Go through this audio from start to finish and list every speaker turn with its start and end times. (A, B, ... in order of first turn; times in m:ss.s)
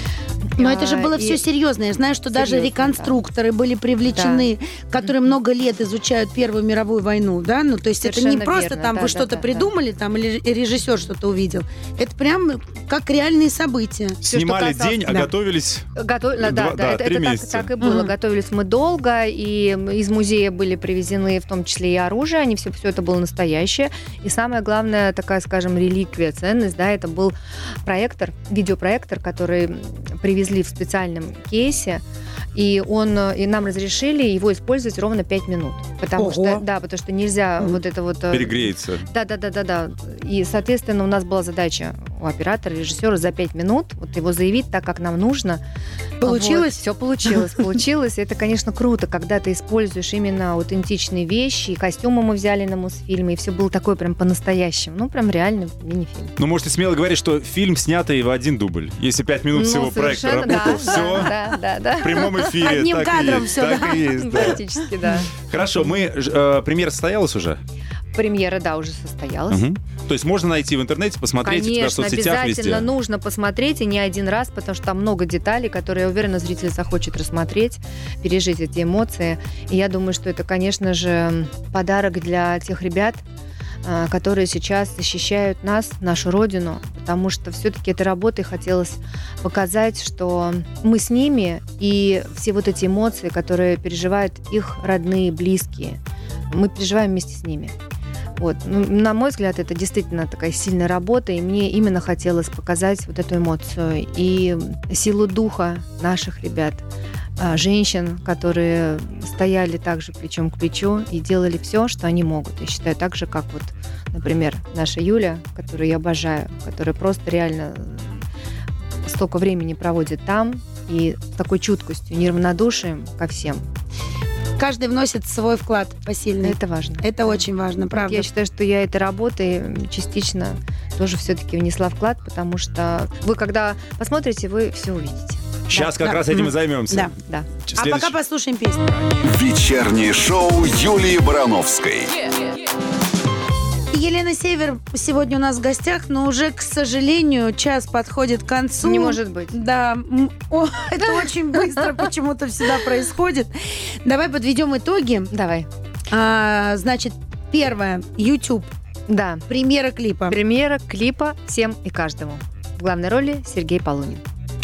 0:00.6-0:01.4 A
0:00.6-0:14.2 B
0:02.3-0:03.2 A
0:04.1-0:04.5 A
0:08.0-0:09.7 A
0:14.2-0:17.7 C
0:14.2-0:15.2 A
0:16.0-0:32.0 A
0:17.8-0:18.1 B
0:32.5-0:45.6 A
0:36.2-0:36.6 B
0:38.3-0:39.0 C
0:46.2-0:47.6 B
0:46.2-0:56.3 A
0:56.4-1:01.4 C
0:59.5-1:02.7 A
1:02.0-1:04.6 C
1:02.5-1:04.2 B
1:03.7-1:05.3 A
1:05.4-1:07.6 C
1:08.1-1:09.6 A
1:09.5-1:12.9 C
1:11.4-1:23.2 A
1:23.8-1:36.0 A
1:36.5-1:37.7 A
1:38.4-1:46.8 A
1:47.4-1:58.1 A
1:59.0-2:03.6 A
2:04.6-2:08.3 B
2:06.4-2:07.4 A
2:07.9-2:16.0 A
2:15.7-2:18.2 C
2:16.0-2:17.1 B
2:17.7-2:18.9 B
2:19.2-2:22.2 D
2:23.9-2:35.3 B
2:28.8-2:29.6 A
2:35.3-2:35.7 A
2:36.1-2:38.7 B
2:39.1-2:39.4 A
2:39.5-2:40.4 B
2:40.3-2:44.2 A